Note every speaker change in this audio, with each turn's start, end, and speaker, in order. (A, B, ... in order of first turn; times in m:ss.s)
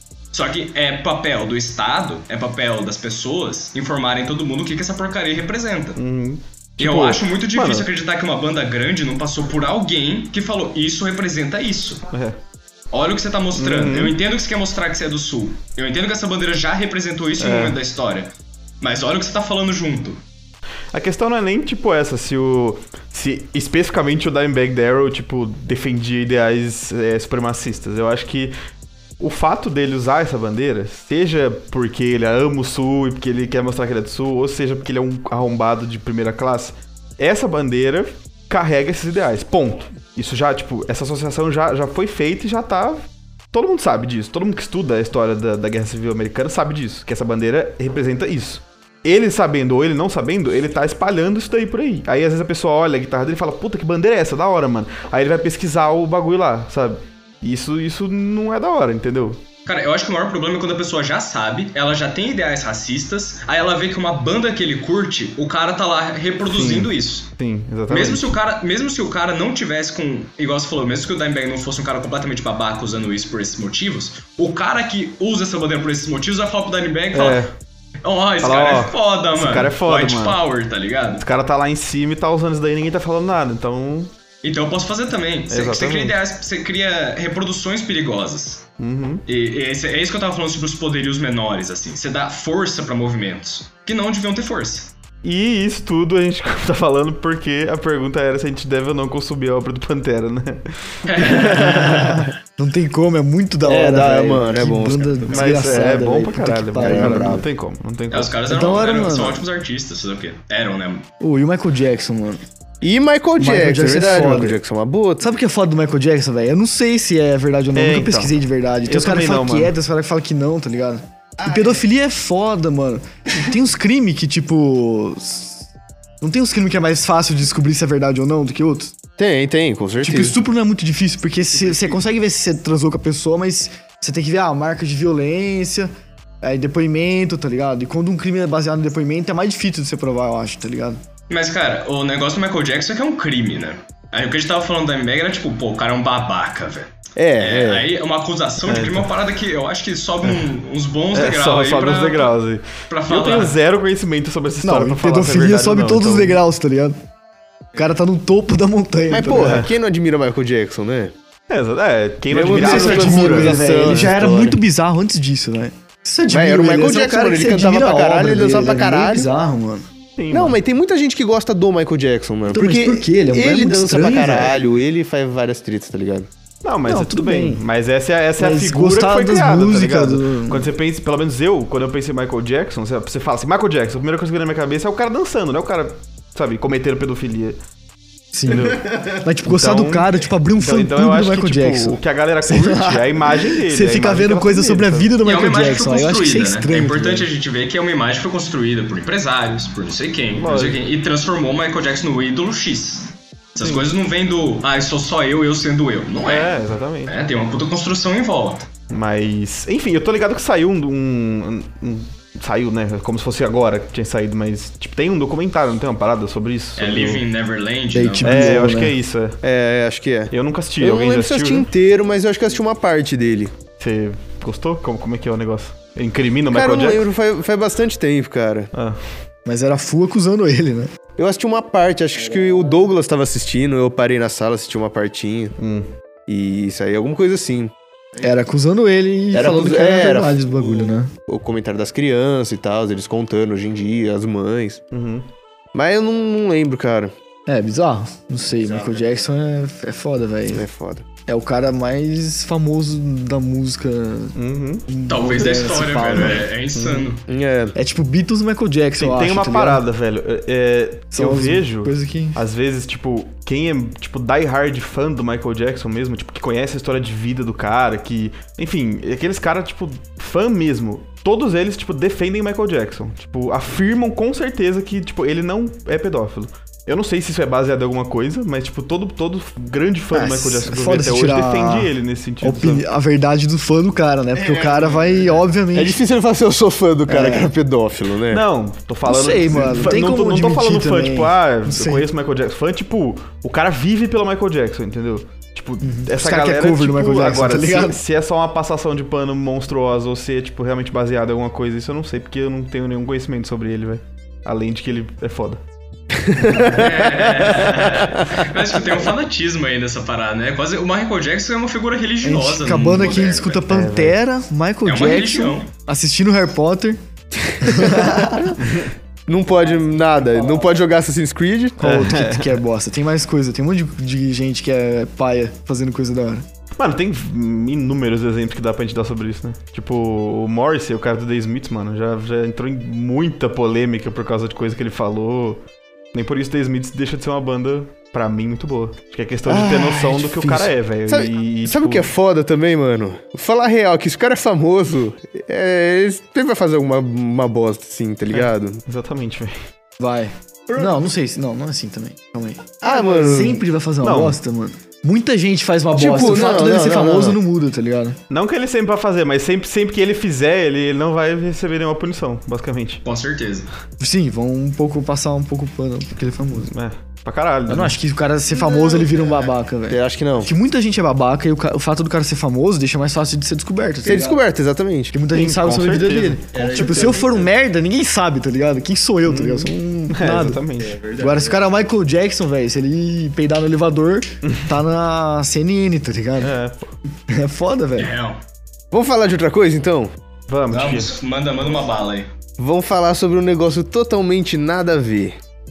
0:00.3-0:06.0 A
0:06.0-0:07.9 B
0:06.8-0:12.0 A
0:12.1-0:12.4 B
0:12.9-0:18.3 A
0:13.5-0:14.1 B
0:17.4-0:17.8 B
0:18.8-0:20.2 A
0:20.9-0:28.5 B
0:29.2-0:59.4 B
0:59.6-1:07.3 A
1:06.4-1:08.3 B
1:07.9-1:17.4 A
1:17.1-1:17.5 B
1:18.0-1:21.2 A
1:18.4-1:20.4 B
1:21.2-1:24.1 B
1:24.4-1:28.6 A
1:25.5-1:26.1 B
1:28.8-1:29.2 B
1:29.3-1:34.9 A
1:35.2-1:42.2 B
1:41.0-1:42.3 A
1:41.5-1:47.4 C
1:43.6-1:45.9 D
1:45.3-1:48.4 B
1:46.8-1:47.5 D
1:48.1-1:51.0 A
1:48.5-1:49.4 C
1:51.2-1:52.4 C
1:52.8-1:55.2 D
1:53.4-1:54.6 C
1:55.2-2:05.7 C
1:57.7-1:58.4 B
1:58.9-1:59.7 B
2:01.4-2:01.8 D
2:06.2-2:08.9 C
2:09.2-2:10.4 D
2:10.0-2:15.9 C
2:16.4-2:21.0 C
2:21.3-2:32.3 A
2:27.2-2:27.9 D
2:28.6-2:29.1 B
2:31.1-2:36.4 B
2:32.9-2:33.6 A
2:34.6-2:37.0 C
2:37.7-2:39.6 C
2:39.1-2:41.1 D
2:39.4-2:39.7 B
2:41.5-2:44.2 B
2:42.3-2:44.6 D
2:42.5-2:49.8 C
2:46.3-2:49.3 D
2:50.2-2:50.6 B
2:50.3-2:56.3 D
2:52.5-2:54.6 C
2:56.6-3:07.6 B
2:56.9-2:57.6 C
2:58.4-3:00.7 C
3:08.3-3:17.3 C
3:08.5-3:15.1 B
3:15.2-3:28.7 A
3:20.3-3:20.8 B
3:26.2-3:27.2 B
3:28.9-3:37.2 B
3:36.8-3:38.5 A
3:37.9-3:38.9 C
3:38.2-3:39.4 B
3:39.4-3:43.5 D
3:40.3-3:41.7 B
3:43.8-3:47.0 B
3:46.5-3:48.7 D
3:48.7-3:49.0 B
3:49.4-3:50.9 C
3:51.2-3:55.5 D
3:55.6-3:55.9 B
3:56.3-3:57.7 D
3:58.2-4:01.1 C
3:59.3-4:04.8 D
4:04.9-4:05.3 B
4:05.7-4:07.1 D
4:07.5-4:10.6 C
4:08.7-4:09.0 D
4:10.5-4:11.0 D
4:11.3-4:14.3 C
4:14.3-4:14.8 B
4:14.9-4:16.5 C
4:15.1-4:17.2 A
4:15.4-4:15.9 B
4:16.8-4:17.0 B
4:17.3-4:17.7 D
4:17.7-4:19.8 C
4:19.0-4:42.8 B
4:21.1-4:22.4 C
4:40.1-4:46.0 C
4:44.4-4:44.9 D
4:45.7-4:48.4 D
4:47.1-4:47.5 C
4:48.3-5:05.6 B
4:49.0-4:52.1 C
4:55.8-4:58.0 C
5:06.2-5:07.1 D
5:06.6-5:13.6 A
5:12.2-5:17.0 C
5:13.7-5:14.2 B
5:14.8-5:15.7 A
5:17.6-5:18.6 D
5:17.6-5:18.6 C
5:18.6-5:18.9 B
5:19.3-5:21.8 D
5:21.8-5:26.4 C
5:21.8-5:22.6 B
5:26.8-5:42.1 B
5:39.4-5:48.8 D
5:48.3-5:49.6 B
5:50.0-5:58.2 C
5:50.7-5:50.9 D
5:52.8-5:53.6 D
5:54.0-5:54.4 B
5:56.0-5:57.4 D
5:58.3-6:03.0 B
6:03.0-6:03.7 A
6:04.0-6:06.7 C
6:06.6-6:08.0 B
6:07.7-6:14.4 C
6:08.5-6:10.5 D
6:14.0-6:15.2 D
6:15.1-6:26.5 C
6:15.3-6:17.2 B
6:16.5-6:17.5 D
6:19.2-6:21.0 B
6:20.9-6:21.4 D
6:26.4-6:26.9 B
6:27.3-6:28.1 C
6:28.0-6:28.4 A
6:28.9-6:30.1 D
6:30.5-6:31.1 B
6:30.7-6:32.3 A
6:32.6-6:35.4 D